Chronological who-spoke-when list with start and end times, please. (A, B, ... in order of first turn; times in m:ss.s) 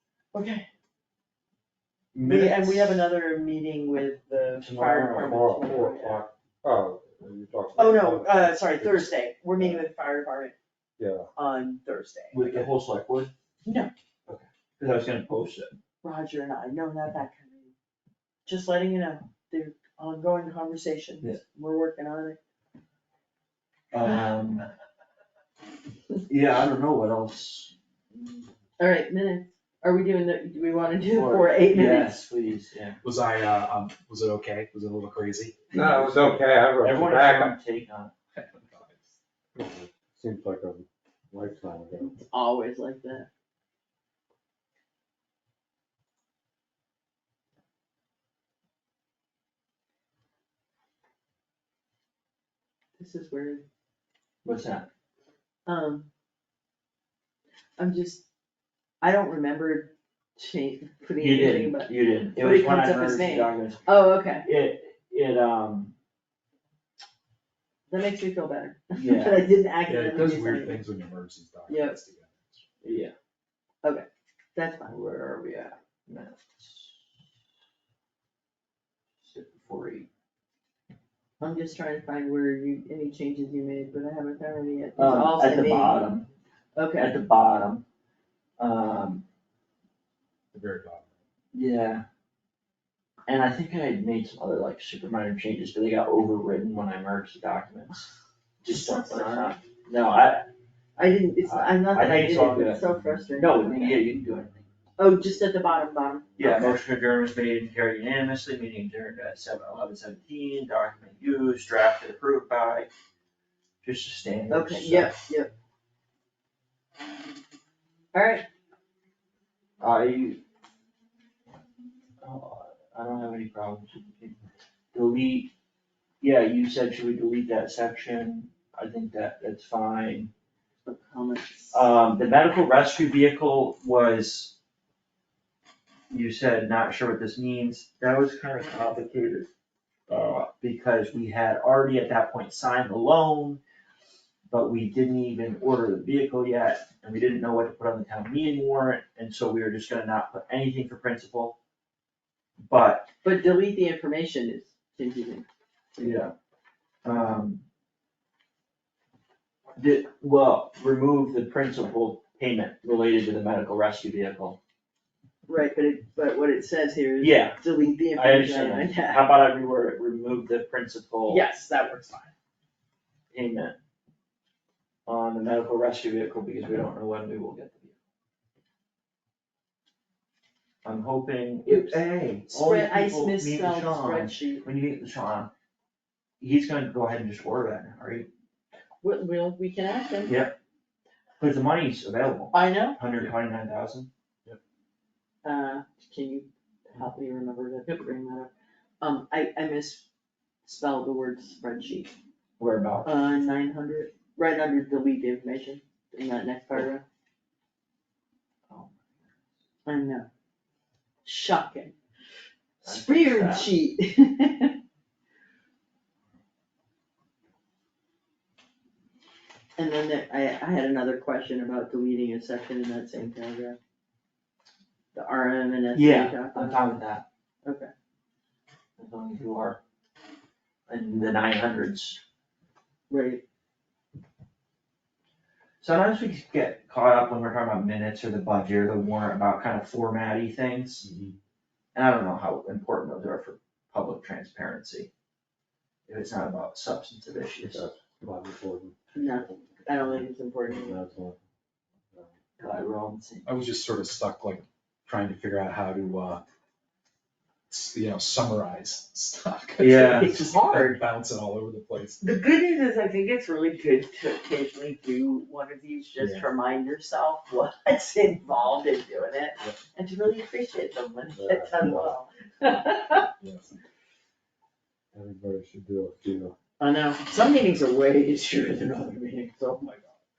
0:00.3-0:00.7 A
0:02.1-0:03.1 B
0:02.2-0:06.2 A
0:04.6-0:05.4 B
0:05.2-0:09.8 C
0:07.8-0:10.6 A
0:11.0-0:11.3 C
0:11.4-0:12.7 A
0:12.3-0:13.3 B
0:13.6-0:13.9 A
0:14.3-0:15.8 B
0:16.0-0:17.7 A
0:18.5-0:22.4 A
0:23.9-0:24.7 B
0:26.3-0:28.5 B
0:28.8-0:32.2 A
0:31.1-0:33.0 B
0:33.0-0:35.7 D
0:35.7-0:37.6 C
0:35.8-0:38.1 B
0:38.4-0:39.1 D
0:39.6-0:42.2 C
0:42.0-0:43.3 A
0:53.0-0:53.6 A
0:54.4-0:54.9 B
0:55.7-0:56.1 A
0:57.8-0:58.2 A
0:59.0-1:04.5 A
1:01.2-1:06.0 B
1:07.9-1:10.8 A
1:09.0-1:09.5 B
1:09.8-1:12.6 D
1:11.7-1:12.0 A
1:12.8-1:13.1 B
1:13.8-1:15.0 A
1:14.9-1:17.0 B
1:19.2-1:20.1 B
1:21.4-1:26.1 A
1:25.0-1:26.3 B
1:26.8-1:27.2 A
1:27.0-1:27.8 B
1:28.6-1:29.2 B
1:30.5-1:31.0 C
1:31.5-1:32.0 B
1:33.3-1:40.5 B
1:38.7-1:39.6 A
1:41.0-1:44.1 A
1:41.4-1:44.7 B
1:45.0-1:46.8 A
1:46.4-1:52.9 B
1:53.8-1:55.1 B
1:54.5-1:55.5 A
1:58.1-1:58.5 A
1:59.8-2:00.4 B
2:02.2-2:04.4 B
2:04.9-2:05.5 B
2:06.2-2:10.3 B
2:10.9-2:11.9 A
2:11.7-2:14.6 B
2:16.1-2:19.5 B
2:20.1-2:23.6 B
2:24.5-2:31.6 B
2:32.7-2:33.1 B
2:33.2-2:35.5 A
2:36.0-2:36.3 B
2:37.0-2:37.6 B
2:39.8-2:44.6 B
2:45.5-2:49.4 A
2:47.2-2:47.6 B
2:48.1-2:51.4 B
2:51.3-2:52.3 A
2:53.3-2:53.8 B
2:55.1-2:57.9 B
3:00.8-3:05.5 B
3:01.7-3:04.7 A
3:06.4-3:08.3 B
3:09.0-3:10.4 A
3:10.3-3:10.6 B
3:11.4-3:14.1 B
3:12.5-3:13.0 A
3:15.4-3:18.5 A
3:19.0-3:20.0 A
3:20.6-3:22.1 A
3:22.6-3:23.2 B
3:23.0-3:27.0 A
3:28.7-3:29.0 B
3:29.8-3:30.3 A
3:31.2-3:32.0 A
3:32.8-3:33.7 B
3:32.8-3:34.8 A
3:39.8-3:43.8 A
3:45.1-3:47.0 A
3:45.9-3:47.2 B
3:47.6-3:47.9 A
3:49.0-3:49.8 B
3:50.9-3:52.2 B
3:53.1-3:53.4 A
3:55.8-4:01.1 B
4:02.0-4:05.1 B
4:06.1-4:07.9 B
4:07.6-4:09.5 C
4:09.1-4:11.0 A
4:10.7-4:11.4 C
4:12.6-4:13.5 B
4:13.5-4:16.4 D
4:17.7-4:22.2 D
4:19.8-4:20.8 B
4:20.4-4:21.0 A
4:22.2-4:33.3 A
4:26.2-4:26.5 D
4:31.3-4:32.2 C
4:33.4-4:33.7 D
4:35.1-4:36.6 C
4:36.8-4:40.2 A